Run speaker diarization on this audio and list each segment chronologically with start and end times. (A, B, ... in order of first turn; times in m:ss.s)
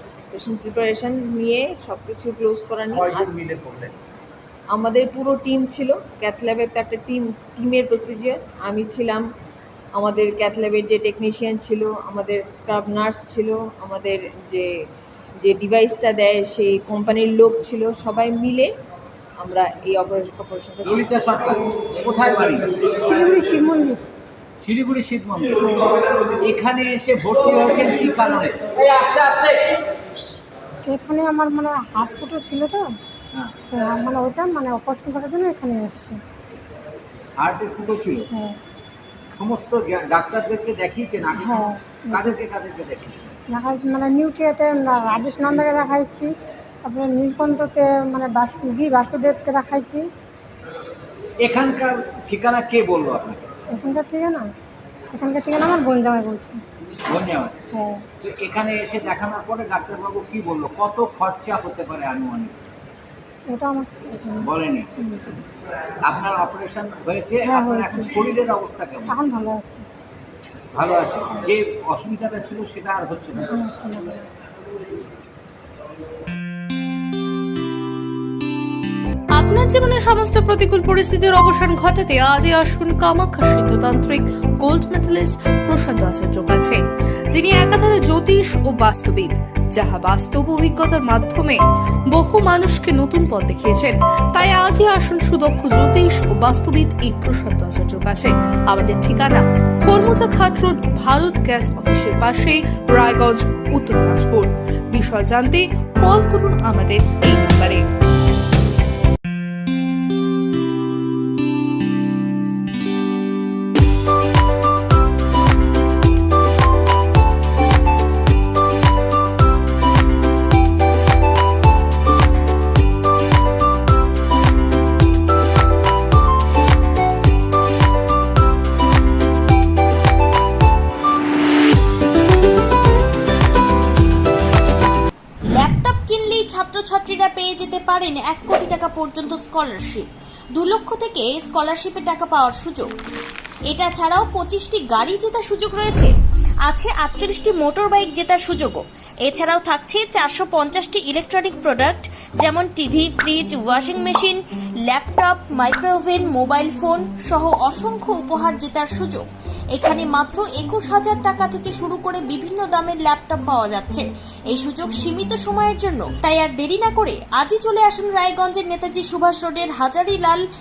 0:00.3-0:03.3 A
0:02.9-0:04.0 B
0:04.7-0:09.2 A
0:09.9-0:14.7 A
0:15.4-0:18.7 A
0:19.4-0:21.5 A
0:20.8-0:22.9 B
0:23.0-0:24.0 C
0:24.6-0:29.7 B
0:30.9-0:32.9 C
0:33.7-0:36.2 C
0:37.4-0:38.2 B
0:39.3-0:43.4 B
0:41.4-0:42.2 C
0:43.5-0:46.3 C
0:46.8-0:50.1 C
0:51.4-0:53.4 B
0:53.7-0:54.5 C
0:55.1-0:56.6 C
0:57.1-0:57.6 B
0:57.7-0:58.0 C
0:58.2-1:02.6 B
1:03.5-1:05.2 C
1:04.4-1:04.9 B
1:06.0-1:09.2 B
1:07.4-1:08.3 C
1:09.1-1:09.8 C
1:10.7-1:13.5 B
1:13.5-1:14.2 C
1:19.4-1:26.8 D
1:27.3-1:31.6 D
1:32.1-1:47.8 D
2:15.5-2:22.9 E
2:23.7-2:26.1 E
2:26.6-2:50.4 E